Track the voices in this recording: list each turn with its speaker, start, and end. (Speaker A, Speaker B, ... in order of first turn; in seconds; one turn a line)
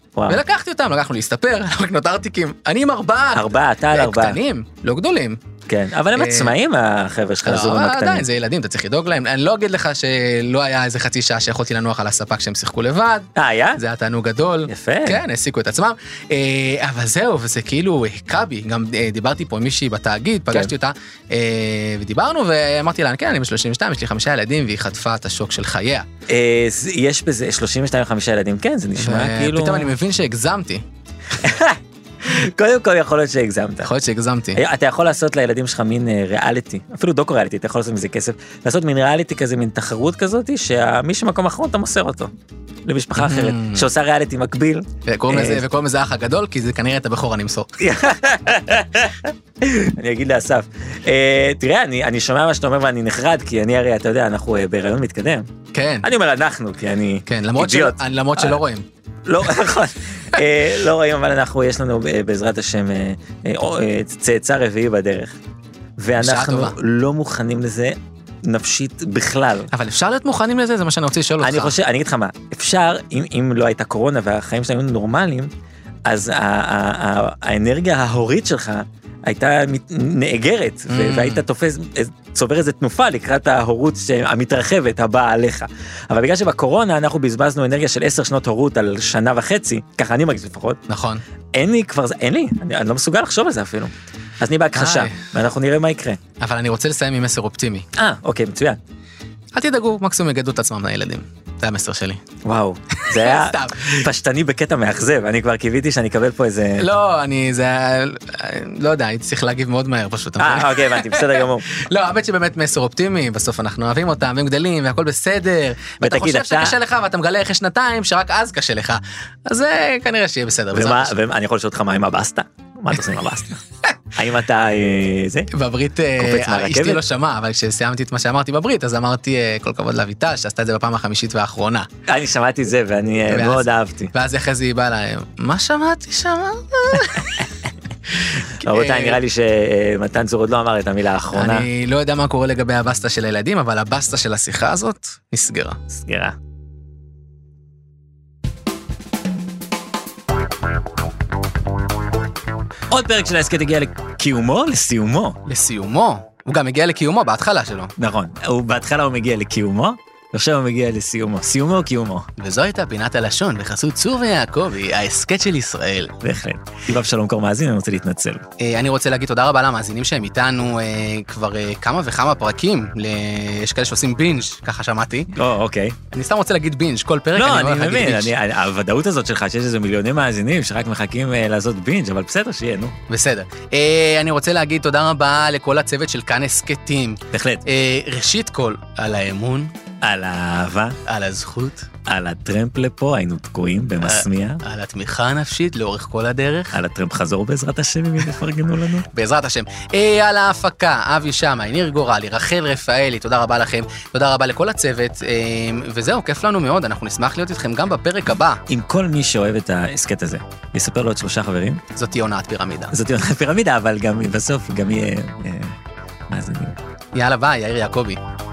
Speaker A: 0.1-0.4
Speaker B: 0.3-5.4
Speaker A: 3.3-4.4
Speaker A: 5.7-8.3
Speaker B: 6.1-6.5
Speaker B: 7.4-26.1
Speaker A: 13.3-13.8
Speaker A: 14.7-15.2
Speaker A: 26.3-29.9
Speaker B: 28.9-30.8
Speaker A: 31.4-33.9
Speaker B: 33.8-34.6
Speaker A: 34.5-42.3
Speaker A: 42.8-45.6
Speaker B: 43.1-43.9
Speaker B: 45.1-47.7
Speaker A: 47.8-55.5
Speaker B: 55.7-56.1
Speaker A: 56.0-58.6
Speaker B: 57.3-58.8
Speaker A: 59.2-65.4
Speaker A: 66.0-69.7
Speaker B: 66.2-66.8
Speaker B: 69.7-71.8
Speaker A: 71.4-75.5
Speaker A: 76.1-90.8
Speaker B: 80.9-81.4
Speaker B: 90.9-91.2
Speaker A: 91.5-96.2
Speaker B: 94.7-95.2
Speaker B: 96.4-97.8
Speaker A: 97.9-98.8
Speaker B: 99.5-102.2
Speaker A: 102.4-106.9
Speaker B: 102.9-104.0
Speaker B: 106.8-121.2
Speaker A: 110.4-111.7
Speaker A: 116.0-116.8
Speaker A: 120.7-123.6
Speaker A: 124.2-125.5
Speaker B: 125.5-131.9
Speaker A: 126.2-127.0
Speaker A: 132.1-134.1
Speaker B: 133.3-137.5
Speaker B: 138.2-139.2
Speaker A: 138.6-141.7
Speaker B: 141.3-145.8
Speaker A: 145.9-146.3
Speaker A: 152.9-155.4
Speaker B: 155.4-157.9
Speaker A: 158.0-162.3
Speaker B: 162.4-166.2
Speaker A: 166.2-168.4
Speaker B: 168.6-175.3
Speaker A: 175.3-176.0
Speaker B: 176.1-178.3
Speaker A: 177.3-182.9
Speaker B: 183.1-189.7
Speaker A: 187.3-187.6
Speaker A: 190.0-191.0
Speaker B: 191.1-191.9
Speaker A: 192.1-194.6
Speaker B: 194.0-196.8
Speaker A: 196.7-199.1
Speaker B: 199.1-208.6
Speaker A: 208.7-211.8
Speaker B: 211.9-212.9
Speaker A: 212.9-215.8
Speaker A: 216.3-216.8
Speaker B: 217.1-218.2